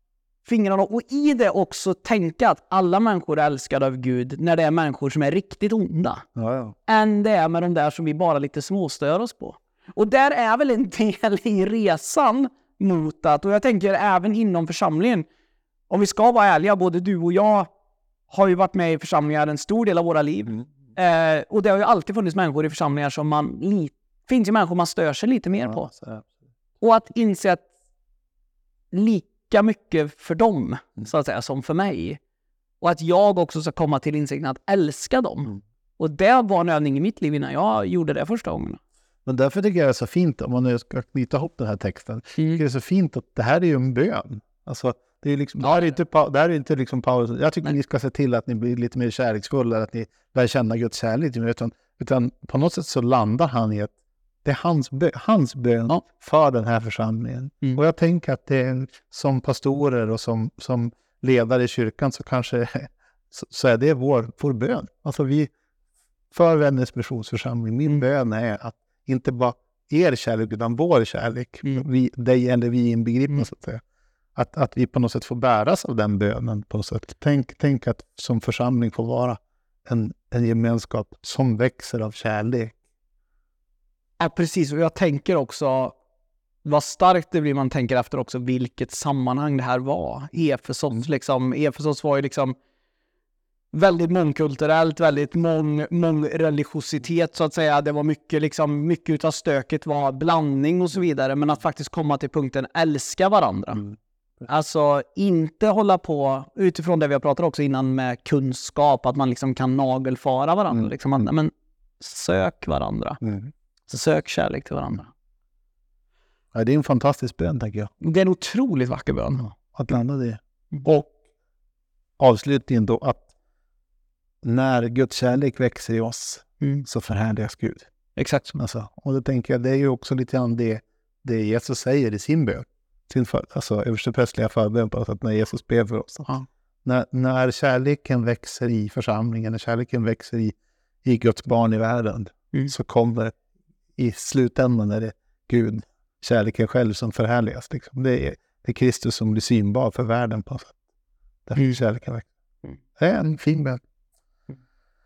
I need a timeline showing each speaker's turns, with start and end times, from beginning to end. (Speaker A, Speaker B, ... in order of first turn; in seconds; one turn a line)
Speaker A: 0.4-6.2
Speaker B: 6.3-6.8
Speaker A: 6.9-15.2
Speaker A: 15.9-17.7
Speaker A: 18.3-25.9
Speaker B: 25.7-26.2
Speaker A: 26.8-27.7
Speaker A: 28.9-32.2
Speaker A: 32.8-38.8
Speaker B: 39.2-53.9
Speaker A: 45.6-45.9
Speaker B: 54.4-65.5
Speaker B: 66.3-73.8
Speaker B: 74.3-82.8
Speaker A: 84.2-86.0
Speaker A: 86.6-92.5
Speaker A: 93.7-103.8
Speaker A: 104.5-113.2
Speaker B: 113.2-113.5
Speaker A: 113.9-115.1
Speaker B: 116.5-117.9
Speaker A: 118.0-119.5
Speaker B: 119.4-121.1
Speaker B: 122.2-123.3
Speaker B: 124.4-127.9
Speaker A: 128.2-128.5
Speaker B: 128.5-136.3
Speaker B: 136.8-143.3
Speaker B: 144.0-150.8
Speaker B: 151.5-152.3
Speaker B: 152.9-153.8